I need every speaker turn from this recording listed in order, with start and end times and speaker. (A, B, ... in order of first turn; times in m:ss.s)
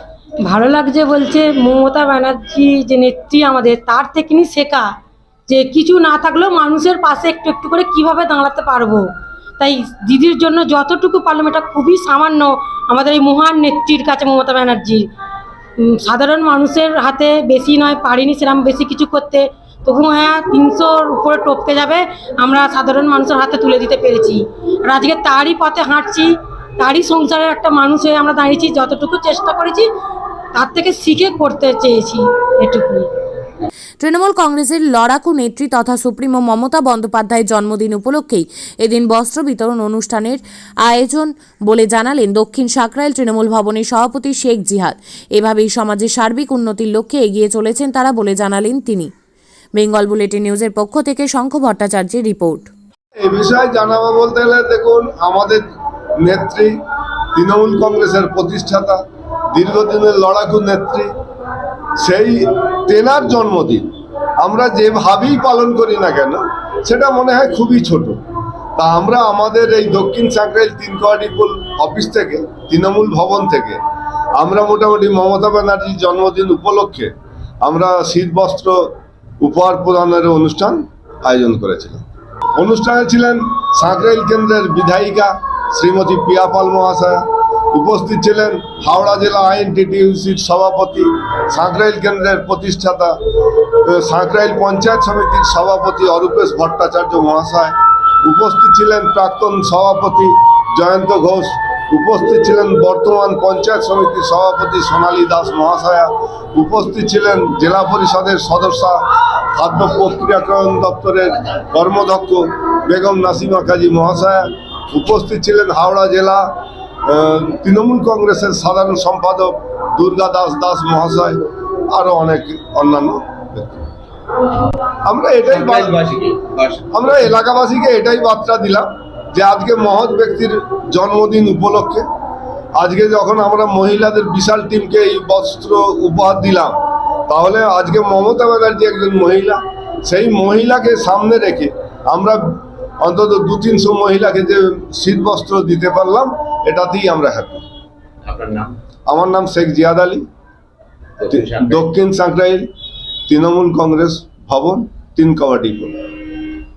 0:00.4-0:04.9 A
0:05.5-0:09.0 A
0:09.6-0:15.0 A
0:16.0-0:29.8 A
0:30.5-0:33.1 A
0:34.0-0:49.1 B
0:49.8-0:52.7 B
0:53.2-0:55.6 C
0:56.2-0:56.7 C
0:57.3-0:59.0 C
0:59.5-1:01.1 C
1:02.0-1:03.8 C
1:04.4-1:08.2 C
1:08.8-1:13.8 C
1:14.4-1:17.1 C
1:17.6-1:18.8 C
1:19.4-1:22.0 C
1:22.6-1:33.2 C
1:33.9-1:49.0 C
1:49.5-1:56.5 C
1:57.1-2:03.8 C
2:05.0-2:06.0 C
2:05.5-2:06.8 D
2:06.9-2:12.0 C
2:12.8-2:16.7 C
2:17.3-2:27.6 C
2:28.2-2:28.7 D
2:29.1-2:30.2 C
2:31.2-2:31.8 D
2:31.3-2:32.6 C
2:33.3-2:36.0 C